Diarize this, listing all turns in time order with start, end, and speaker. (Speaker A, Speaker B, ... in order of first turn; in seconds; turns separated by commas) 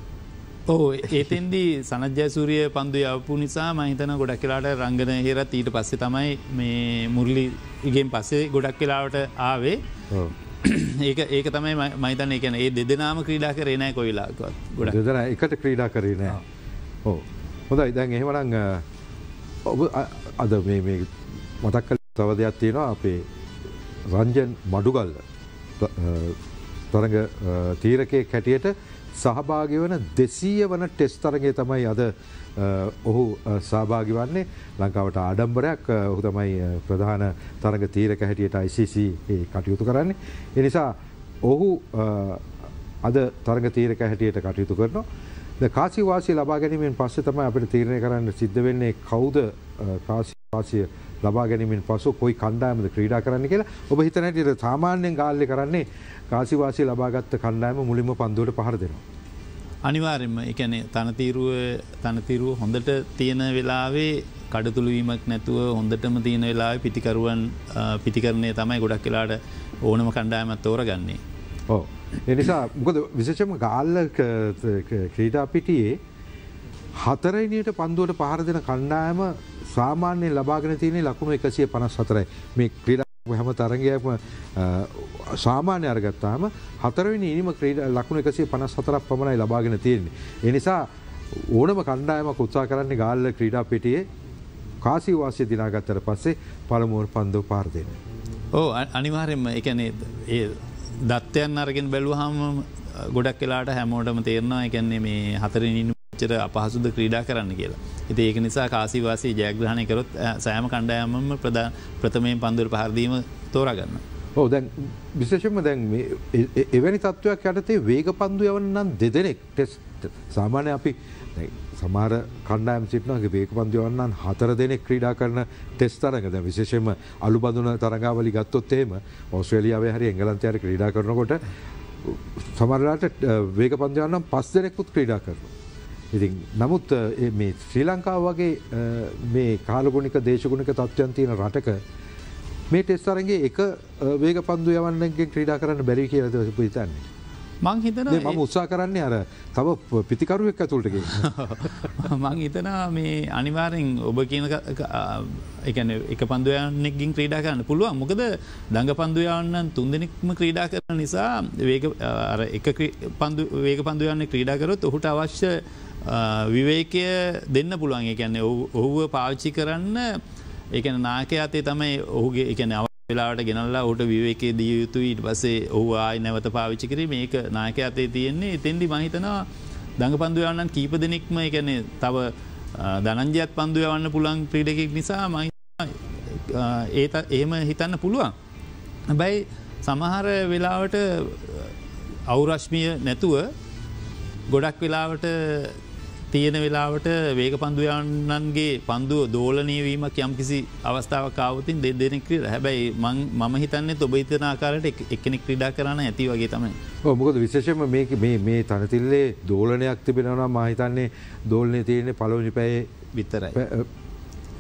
Speaker A: 0.7-9.8, Speaker A: 10.6-15.0, Speaker B: 14.8-16.4, Speaker B: 17.0-18.9, Speaker B: 19.6-23.3, Speaker B: 24.1-25.2, Speaker B: 25.8-26.4, Speaker B: 26.9-42.5, Speaker B: 43.0-45.1, Speaker B: 45.6-59.0, Speaker A: 59.9-71.2, Speaker B: 71.7-76.0, Speaker B: 77.0-94.0, Speaker B: 94.8-98.0, Speaker A: 98.5-114.0, Speaker B: 114.4-131.5, Speaker B: 132.0-135.5, Speaker B: 136.1-141.8, Speaker B: 142.7-147.1, Speaker A: 147.6-148.4, Speaker B: 148.1-151.3, Speaker A: 151.1-170.2, Speaker A: 170.7-179.5, Speaker A: 180.0-188.3, Speaker A: 189.1-191.7, Speaker A: 192.3-193.5, Speaker A: 194.5-195.8, Speaker A: 196.3-206.8, Speaker B: 207.0-212.9, Speaker A: 213.1-213.6, Speaker B: 213.6-213.9